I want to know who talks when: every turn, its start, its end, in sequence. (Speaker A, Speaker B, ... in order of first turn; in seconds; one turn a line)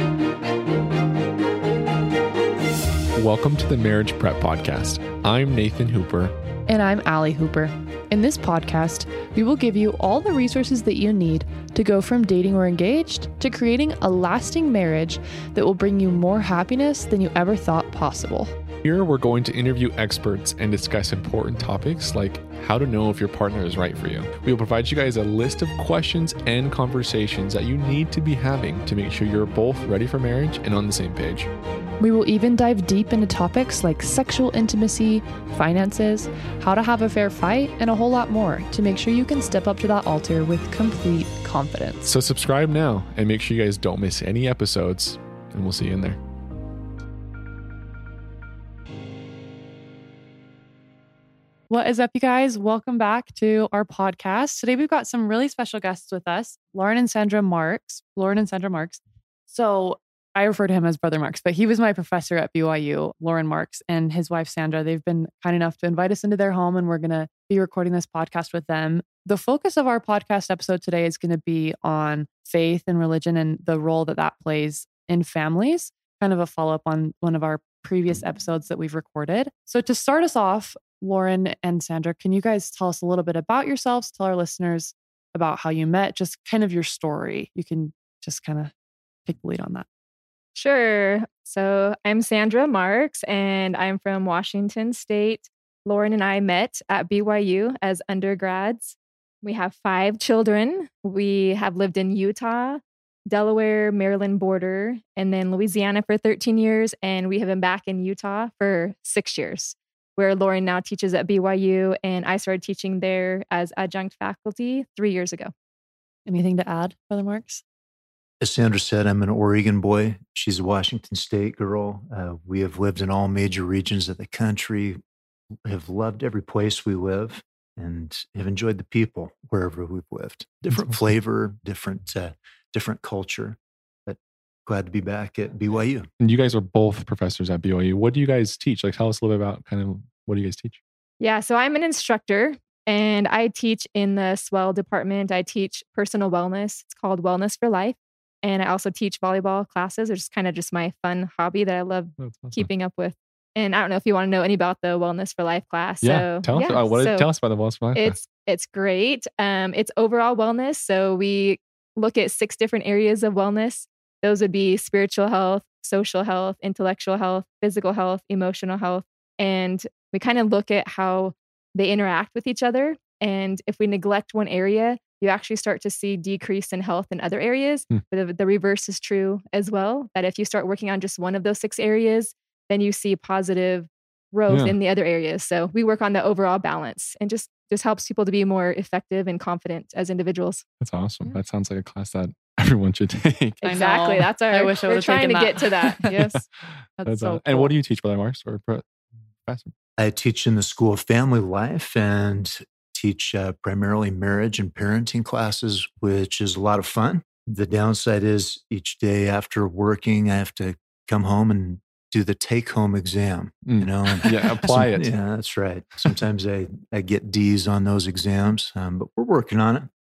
Speaker A: 3.1-6.3
Speaker B: 6.7-18.5
Speaker A: 18.8-31.5
Speaker B: 32.0-42.1
Speaker A: 42.1-46.2
Speaker B: 51.7-88.7
Speaker B: 89.3-89.9
Speaker C: 90.6-115.5
Speaker B: 116.3-117.6
Speaker D: 118.4-125.0
Speaker D: 125.7-136.1
Speaker A: 136.2-140.8
Speaker C: 141.2-157.3
Speaker A: 152.2-152.7
Speaker A: 156.0-158.2
Speaker C: 157.9-190.7
Speaker A: 184.5-184.8
Speaker A: 190.8-193.6
Speaker B: 193.6-196.4
Speaker C: 193.6-196.4
Speaker A: 196.1-198.9
Speaker B: 197.0-197.7
Speaker A: 199.4-199.7
Speaker D: 200.0-219.9
Speaker A: 213.7-215.1